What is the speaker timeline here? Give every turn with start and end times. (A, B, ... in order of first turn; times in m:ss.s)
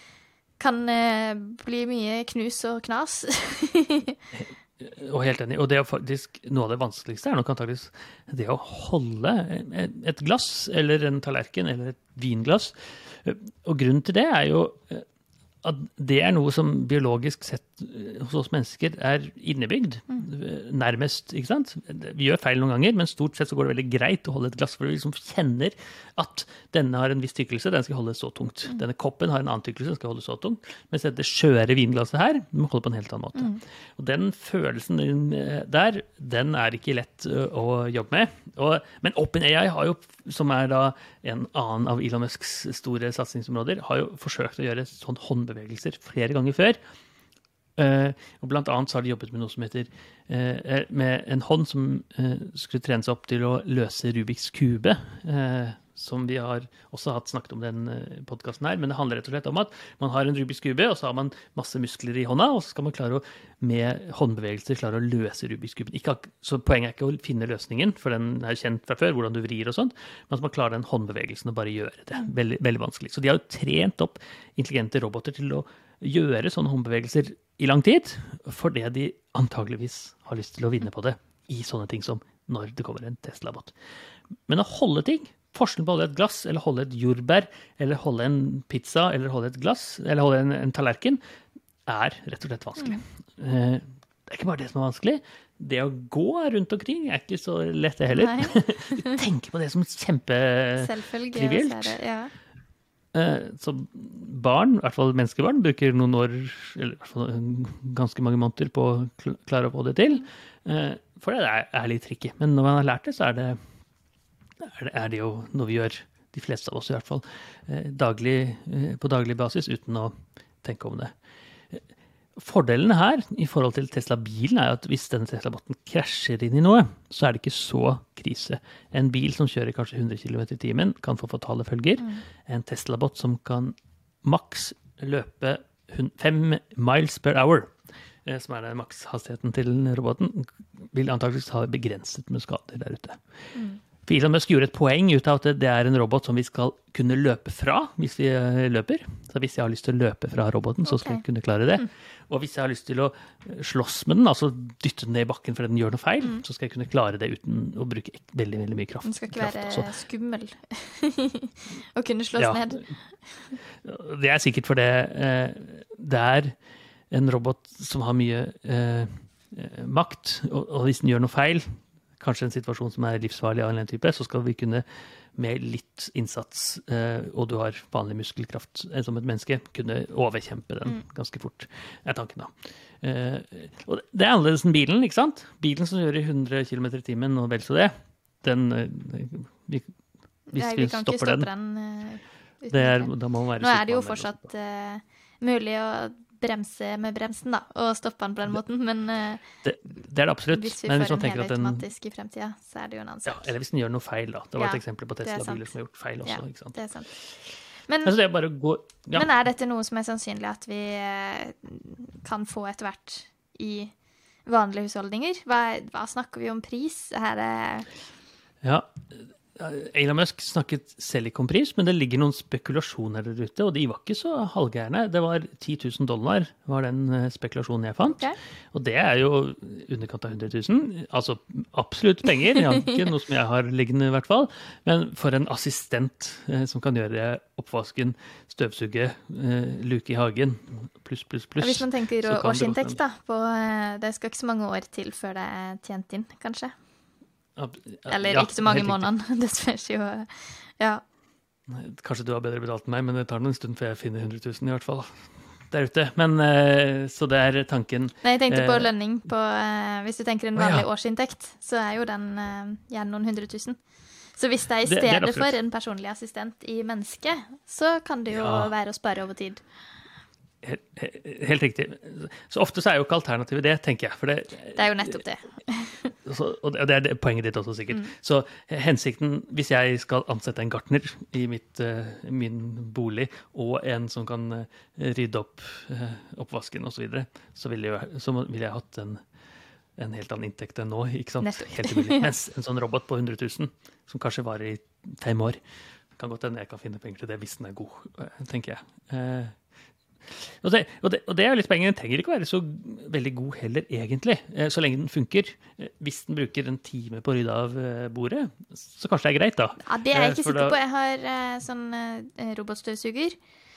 0:00.6-0:04.2 A
0:04.4-0:15.0 B
0:15.6-0:46.8 B
0:47.8-1:23.7 B
1:24.5-1:31.2 B
1:31.9-1:42.0 B
1:38.1-1:39.2 A
1:40.8-1:42.3 A
1:43.1-1:53.6 B
1:54.6-2:00.1 B
2:00.6-2:01.1 B
2:02.4-2:17.7 B
2:18.2-2:23.2 B
2:23.5-2:23.8 A
2:24.0-2:39.9 B
2:30.8-2:31.2 A
2:39.0-2:42.9 A
2:42.4-2:42.7 B
2:43.8-2:46.5 B
2:47.1-2:51.6 B
2:52.2-2:54.8 B
2:55.4-3:09.9 B
3:10.5-3:19.4 A
3:10.5-3:11.5 B
3:12.7-3:14.5 B
3:19.6-3:21.8 B
3:20.5-3:23.5 A
3:23.2-3:26.8 B
3:24.6-3:25.7 A
3:26.2-3:27.1 A
3:27.9-3:28.1 A
3:28.0-3:29.3 B
3:29.1-3:33.9 A
3:34.4-3:37.9 A
3:38.6-3:39.0 B
3:39.6-4:03.0 B
4:01.6-4:06.7 A
4:07.6-4:09.1 B
4:08.1-4:11.0 A
4:11.7-4:18.9 B
4:18.2-4:23.8 A
4:20.6-4:20.8 B
4:24.3-4:29.6 A
4:24.8-4:25.5 B
4:28.3-4:28.7 B
4:30.6-4:35.1 B
4:34.7-4:36.1 A
4:36.2-4:49.2 B
4:50.0-4:55.6 B
4:51.4-4:52.3 A
4:56.2-4:59.5 B
5:00.3-5:10.8 B
5:09.8-5:13.4 A